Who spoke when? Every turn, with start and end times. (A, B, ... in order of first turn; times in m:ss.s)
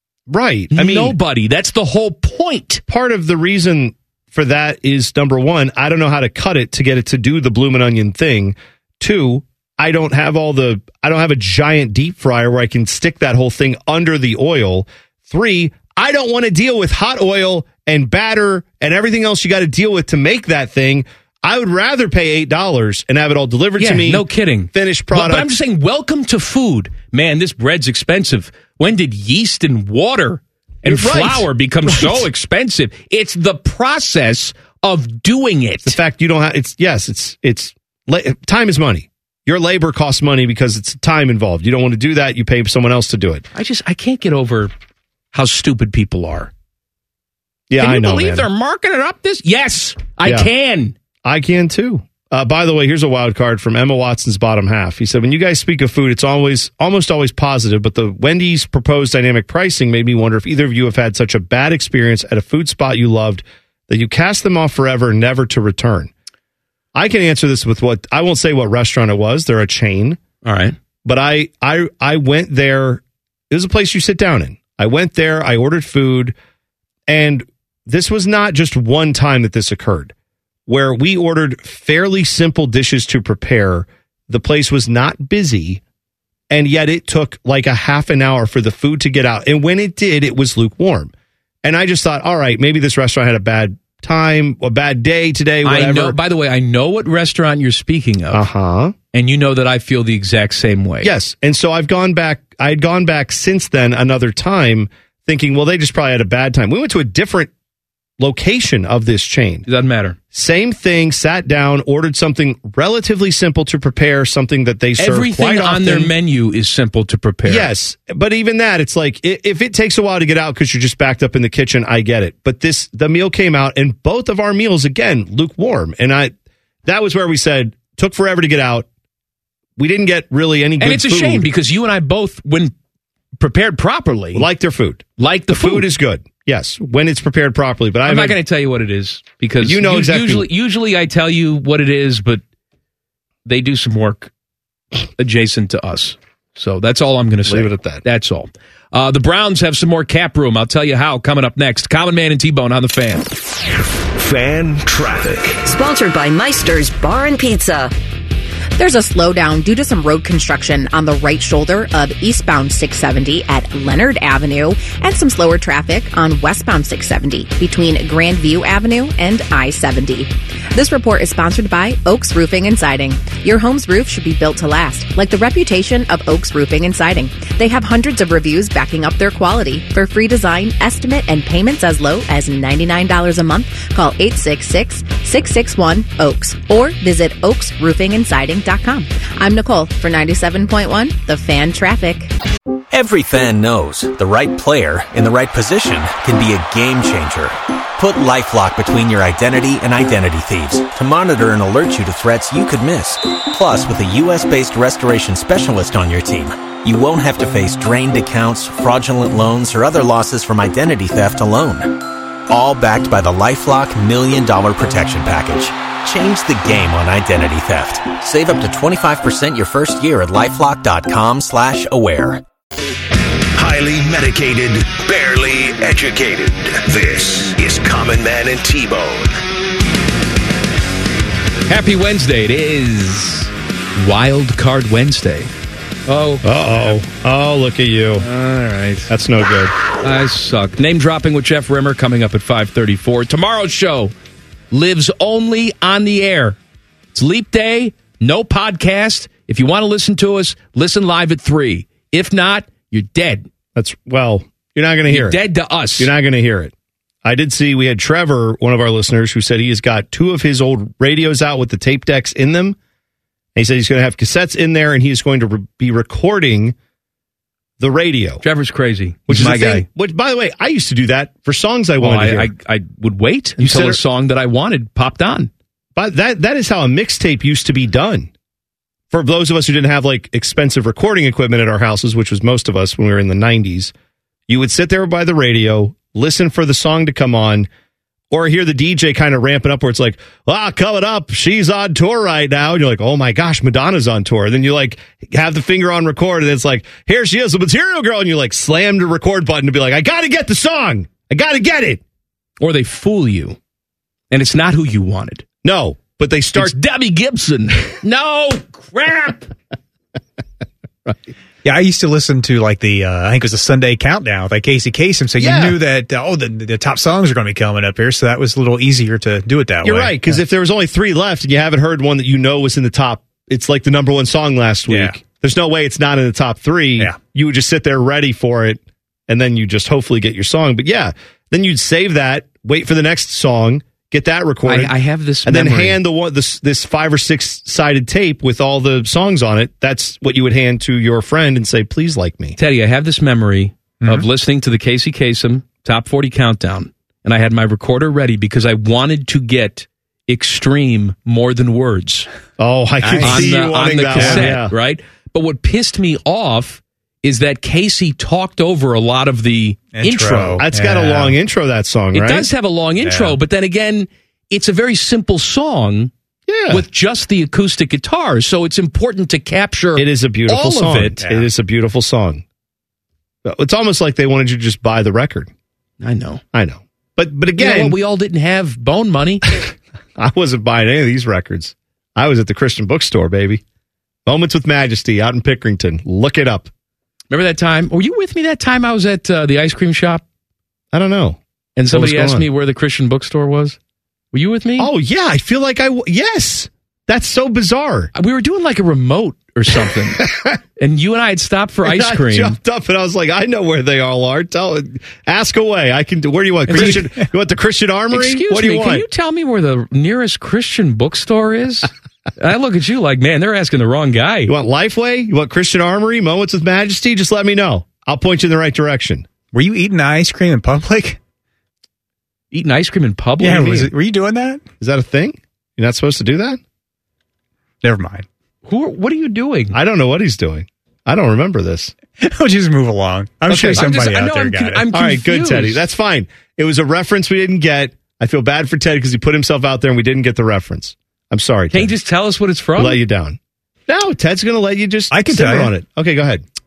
0:00.3-0:01.2 A
0:00.7-0:02.8 B
0:02.9-0:25.5 A
0:23.8-0:36.0 B
0:30.8-0:32.2 A
0:35.8-0:43.4 A
0:43.5-0:44.7 B
0:45.3-0:46.5 B
0:47.7-0:48.5 A
0:47.8-0:50.9 B
0:50.2-0:50.5 A
0:51.2-1:06.1 A
1:06.9-1:10.2 A
1:10.4-1:10.7 B
1:11.0-1:16.3 A
1:17.1-1:20.1 A
1:20.7-1:25.8 A
1:26.5-1:31.1 A
1:31.6-1:36.2 A
1:35.6-1:38.4 B
1:38.3-1:38.9 A
1:39.1-1:41.1 B
1:41.0-1:47.5 A
1:48.2-1:49.6 A
1:49.7-1:50.2 B
1:50.3-1:56.1 A
1:55.0-1:57.7 B
1:57.4-2:06.3 A
2:06.8-2:08.9 A
2:09.8-2:11.5 A
2:10.8-2:12.7 B
2:13.4-2:14.5 B
2:14.3-2:18.4 A
2:15.2-2:15.9 B
2:18.0-2:22.4 B
2:19.6-2:20.5 A
2:23.4-2:24.3 B
2:25.2-2:33.3 B
2:27.4-2:28.0 A
2:34.1-2:35.6 C
2:35.6-2:37.9 D
2:38.8-3:12.3 E
3:12.9-3:42.4 F
3:43.6-3:49.4 C
3:51.7-3:55.5 B
3:56.1-3:56.9 B
3:56.4-3:58.3 A
3:58.2-3:59.1 B
3:59.1-3:59.7 A
4:00.0-4:04.1 B
4:04.7-4:06.6 B
4:07.1-4:13.5 B
4:13.7-4:15.4 A
4:15.1-4:16.1 B
4:16.0-4:16.7 A
4:17.2-4:22.8 A
4:23.6-4:26.8 A
4:27.8-4:28.4 A
4:28.4-4:29.9 B
4:29.3-4:32.5 A
4:32.0-4:35.5 B
4:33.6-4:34.0 A
4:36.0-4:38.3 A
4:39.1-4:43.9 A
4:44.5-4:47.7 A
4:48.3-5:02.0 A
5:02.6-5:03.6 B
5:04.3-5:05.4 B
5:05.6-5:06.7 A
5:06.6-5:09.5 B
5:11.6-5:20.4 G
5:15.4-5:15.8 A
5:19.8-5:34.9 A
5:24.9-5:25.2 G
5:34.6-5:36.0 B
5:35.4-5:42.6 A
5:42.6-5:52.3 B
5:44.0-5:44.3 G
5:52.6-5:54.7 A
5:53.0-5:54.5 G
5:53.2-6:00.6 B
5:59.9-6:01.4 G
6:00.6-6:02.5 A
6:02.1-6:06.1 B
6:03.0-6:03.4 G
6:06.5-6:06.8 A
6:06.7-6:11.2 B
6:10.0-6:12.4 A
6:11.2-6:11.5 G
6:13.4-6:15.5 A
6:16.0-6:16.4 B
6:16.5-6:18.0 A
6:17.6-6:19.5 B
6:20.2-6:23.6 A
6:24.2-6:26.7 A
6:27.3-6:30.2 B
6:30.9-6:32.5 A
6:31.8-6:33.8 B
6:34.3-6:34.9 B
6:34.8-6:38.1 A
6:38.1-6:40.2 B
6:39.9-6:40.6 A
6:40.8-6:42.6 B
6:41.8-6:49.0 A
6:46.7-6:47.0 B
6:46.7-6:47.0 G
6:48.1-6:54.5 B
6:54.5-6:59.3 A
6:59.5-7:01.2 G
7:02.5-7:03.9 B
7:03.4-7:04.6 G
7:04.8-7:06.6 A
7:07.8-7:08.2 G
7:08.6-7:09.8 B
7:09.7-7:11.9 A
7:12.2-7:14.8 G
7:13.5-7:13.9 A
7:13.7-7:15.8 B
7:14.9-7:21.9 A
7:21.7-7:23.0 B
7:22.8-7:26.4 A
7:25.1-7:25.7 G